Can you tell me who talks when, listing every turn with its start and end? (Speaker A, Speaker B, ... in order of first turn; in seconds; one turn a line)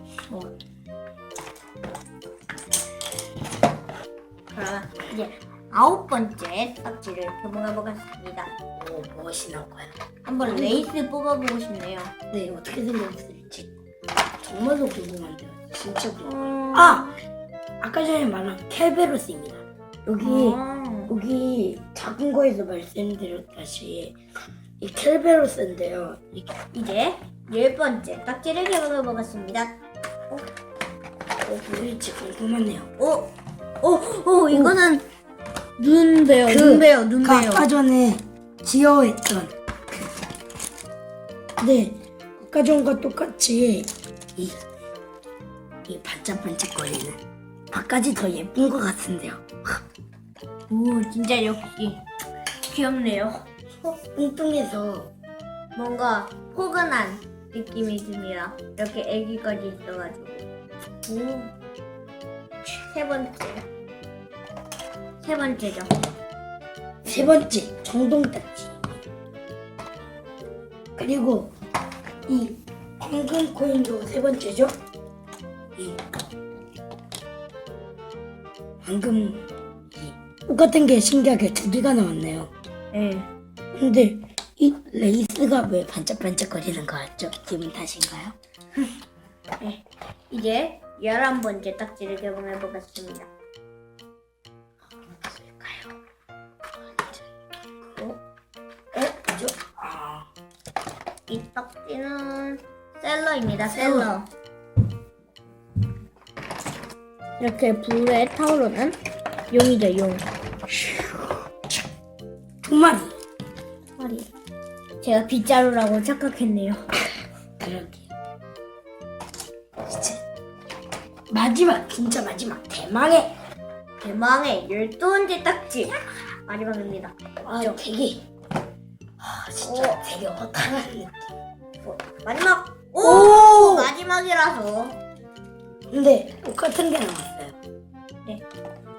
Speaker A: 4.5-8.5
Speaker B: 8.7-10.9
Speaker A: 10.2-12.1
Speaker B: 12.3-13.7
Speaker B: 14.4-17.1
Speaker A: 16.2-17.2
Speaker B: 17.8-24.2
Speaker A: 20.2-21.1
Speaker B: 24.8-26.6
Speaker A: 26.7-29.8
Speaker B: 31.5-32.9
Speaker A: 33.0-35.0
Speaker B: 34.5-34.8
Speaker A: 35.8-37.7
Speaker B: 36.4-39.5
Speaker B: 41.6-44.6
Speaker B: 45.9-49.8
Speaker A: 50.7-52.0
Speaker A: 52.6-53.9
Speaker B: 54.1-55.1
Speaker A: 55.7-60.5
Speaker A: 61.0-61.5
Speaker A: 62.6-63.6
Speaker A: 65.2-66.0
Speaker B: 67.0-68.9
Speaker B: 71.0-71.5
Speaker B: 72.3-74.7
Speaker B: 75.8-76.1
Speaker B: 78.8-82.5
Speaker A: 82.9-83.3
Speaker B: 83.8-88.3
Speaker A: 89.6-93.3
Speaker B: 95.1-95.9
Speaker B: 97.0-97.2
Speaker B: 97.8-98.1
Speaker B: 98.9-100.3
Speaker A: 101.3-104.3
Speaker B: 103.6-104.1
Speaker A: 107.4-109.0
Speaker A: 109.5-110.2
Speaker B: 110.7-111.2
Speaker B: 112.6-113.1
Speaker A: 114.0-114.3
Speaker A: 115.0-116.8
Speaker B: 117.6-118.1
Speaker B: 119.8-120.2
Speaker B: 121.3-123.3
Speaker A: 124.0-127.8
Speaker B: 127.4-128.3
Speaker B: 129.2-131.2
Speaker A: 129.6-130.0
Speaker A: 131.8-135.0
Speaker B: 133.0-133.9
Speaker B: 135.9-137.6